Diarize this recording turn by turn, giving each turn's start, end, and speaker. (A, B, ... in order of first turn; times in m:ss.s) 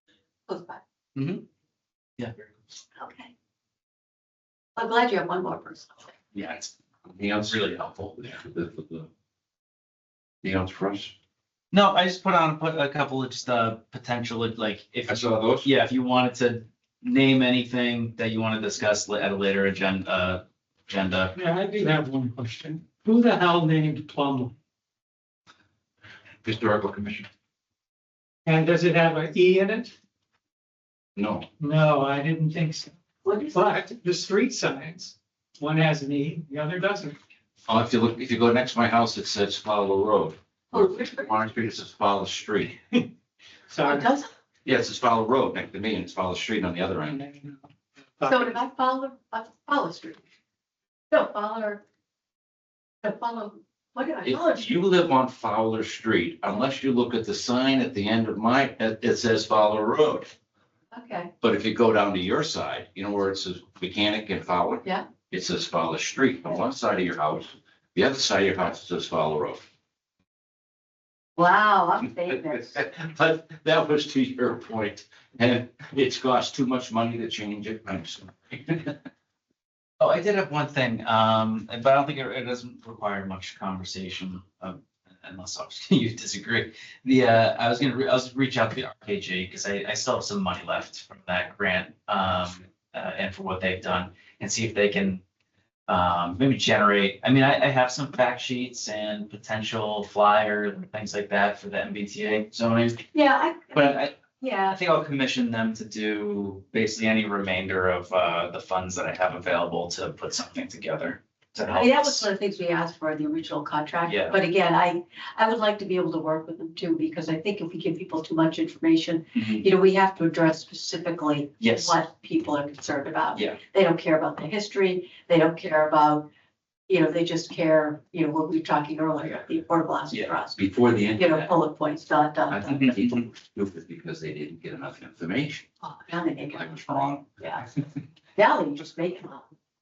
0:00.5-0:00.8 A
0:01.2-0:01.4 B
0:02.2-0:02.4 B
0:03.0-0:03.3 A
0:04.8-0:06.1 A
0:06.3-0:06.7 B
0:07.0-0:09.1 C
0:07.5-0:08.4 B
0:10.4-0:11.1 C
0:11.7-0:21.3 B
0:15.1-0:15.7 C
0:21.3-0:24.5 D
0:26.4-0:27.3 C
0:28.4-0:29.9 D
0:31.2-0:31.5 C
0:31.6-0:32.9 D
0:33.2-0:33.6 A
0:33.5-0:37.2 D
0:37.6-0:42.8 C
0:40.7-0:41.3 A
0:43.7-0:44.1 D
0:43.8-0:44.3 A
0:44.6-0:47.2 C
0:48.2-0:48.5 D
0:48.2-0:50.2 A
0:51.1-0:51.8 A
0:53.0-0:54.7 A
0:54.2-1:00.3 C
1:00.9-1:01.3 A
1:01.4-1:09.6 C
1:11.4-1:12.8 A
1:12.5-1:19.0 C
1:20.0-1:35.2 B
1:35.9-1:43.0 B
1:43.1-1:44.8 A
1:43.7-1:44.2 B
1:44.7-1:52.2 B
1:51.7-2:06.3 A
1:54.0-1:54.4 B
1:59.4-1:59.6 B
2:01.6-2:02.0 B
2:06.9-2:10.6 A
2:10.6-2:11.5 C
2:11.2-2:13.0 A
2:12.5-2:15.6 C
2:12.8-2:13.2 B
2:15.8-2:16.9 A
2:16.5-2:17.3 C
2:17.4-2:17.7 A
2:18.4-2:19.4 A